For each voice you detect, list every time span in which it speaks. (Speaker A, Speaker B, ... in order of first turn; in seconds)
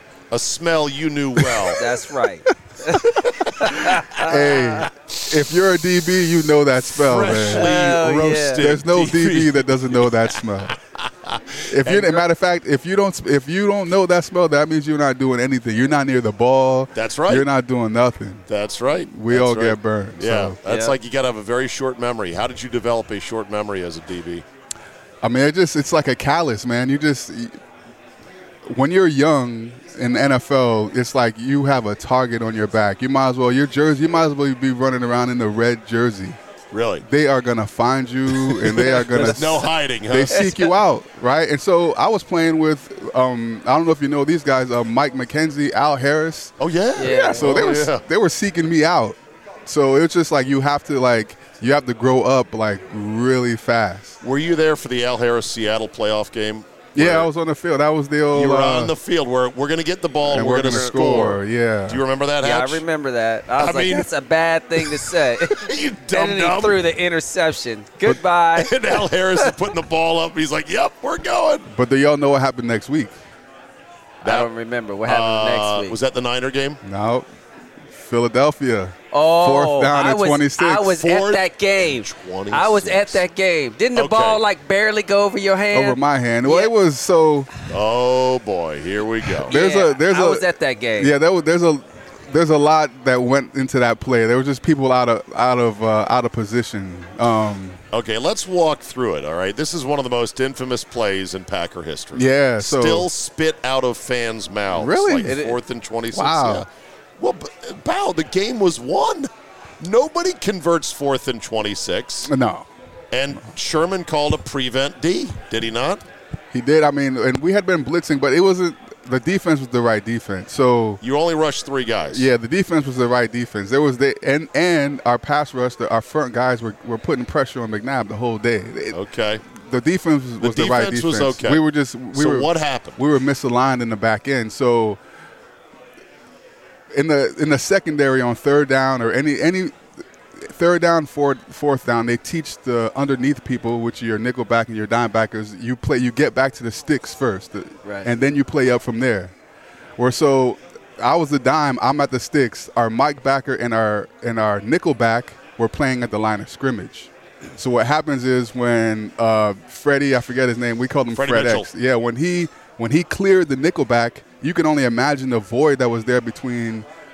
Speaker A: 0.3-1.8, 6.9-12.2, 16.9-17.5, 18.5-24.4, 36.7-37.0, 38.3-40.6, 46.6-48.0, 54.2-57.3, 58.3-62.8, 63.6-64.1, 64.8-66.9, 68.6-71.7, 75.1-76.8, 80.8-83.2, 84.0-84.4, 87.7-89.5, 97.9-106.7, 107.2-109.3, 109.8-112.3, 113.1-116.0, 121.0-122.3, 128.9-129.4, 130.4-131.6, 132.1-133.0, 161.1-161.7
Speaker B: 1.4-1.8, 2.9-10.8, 11.7-18.5, 19.1-20.6, 25.2-27.6, 28.7-36.4, 37.0-54.2, 57.0-59.0, 60.3-62.0, 71.7-73.2, 76.8-77.3, 77.9-80.9, 85.7-87.5, 89.4-97.8, 102.2-103.1, 104.7-105.4, 106.1-106.7, 112.3-112.7, 116.5-121.0, 122.1-135.0, 136.9-139.8, 140.4-149.3, 150.0-166.9
Speaker C: 1.7-4.9, 7.5-8.7, 20.6-21.0, 47.0-47.5, 62.4-69.5, 74.2-76.0, 79.1-86.7, 89.5-91.1, 105.2-105.6, 147.8-148.1